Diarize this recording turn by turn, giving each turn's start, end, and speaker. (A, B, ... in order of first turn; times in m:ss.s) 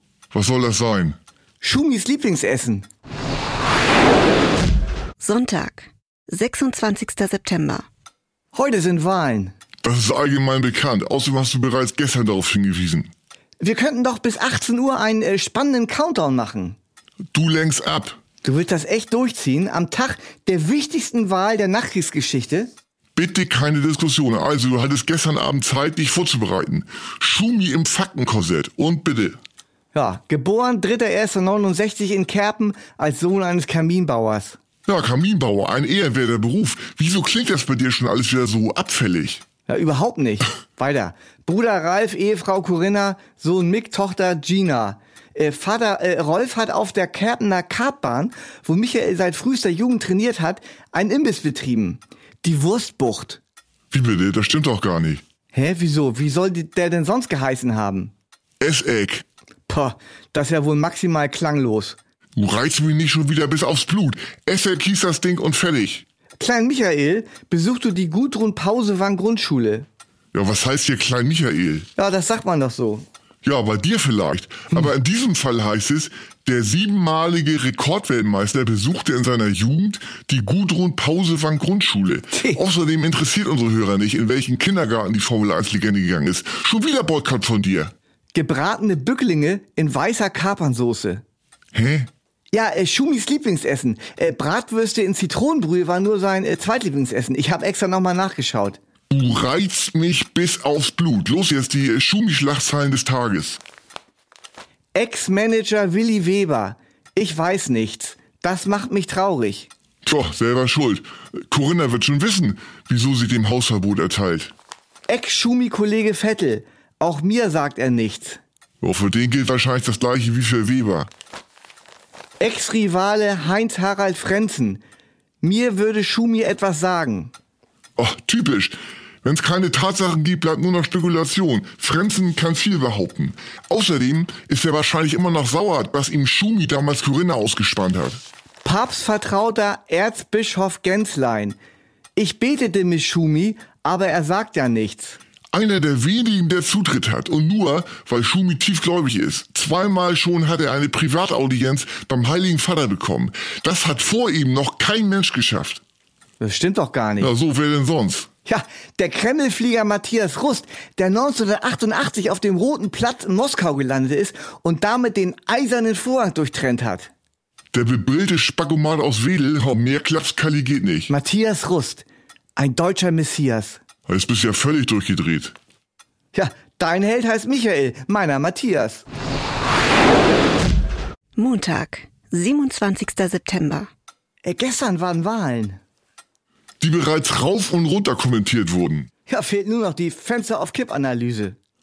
0:00.3-0:01.2 A
0:01.6-0:02.9 B
0:05.2-0:07.8 C
0:08.5-0:09.5 B
0:09.8-0:13.1 A
0:13.6-0:16.8 B
0:17.3-0:18.2 A
0:18.4-0:22.7 B
0:23.2-0:29.4 A
0:29.9-0:34.6 B
0:34.8-0:39.4 A
0:39.7-0:53.4 B
0:53.9-0:55.2 A
0:55.5-0:58.1 B
0:58.6-0:59.2 A
0:59.7-1:02.0 B
1:02.3-1:06.0 A
1:06.4-1:09.8 B
1:10.3-1:11.9 A
1:12.0-1:13.0 B
1:13.4-1:27.9 A
1:22.3-1:22.6 B
1:28.3-1:31.2 B
1:31.7-1:32.1 A
1:32.5-1:38.8 B
1:39.1-1:43.6 A
1:44.9-1:49.7 B
1:50.0-1:54.5 A
1:55.1-1:58.4 B
1:58.8-2:01.1 A
2:02.4-2:04.8 B
2:05.4-2:07.3 B
2:08.0-2:18.2 A
2:18.6-2:21.6 B
2:22.2-2:25.2 B
2:25.5-2:35.8 A
2:36.4-2:37.3 B
2:37.2-2:38.3 A
2:38.4-2:47.1 B
2:47.7-2:51.1 A
2:51.1-2:52.0 B
2:52.6-2:53.8 B
2:54.1-2:55.5 A
2:56.3-2:59.0 B
3:01.4-3:03.9 C
3:04.4-3:05.8 B
3:06.8-3:09.1 A
3:09.3-3:11.6 B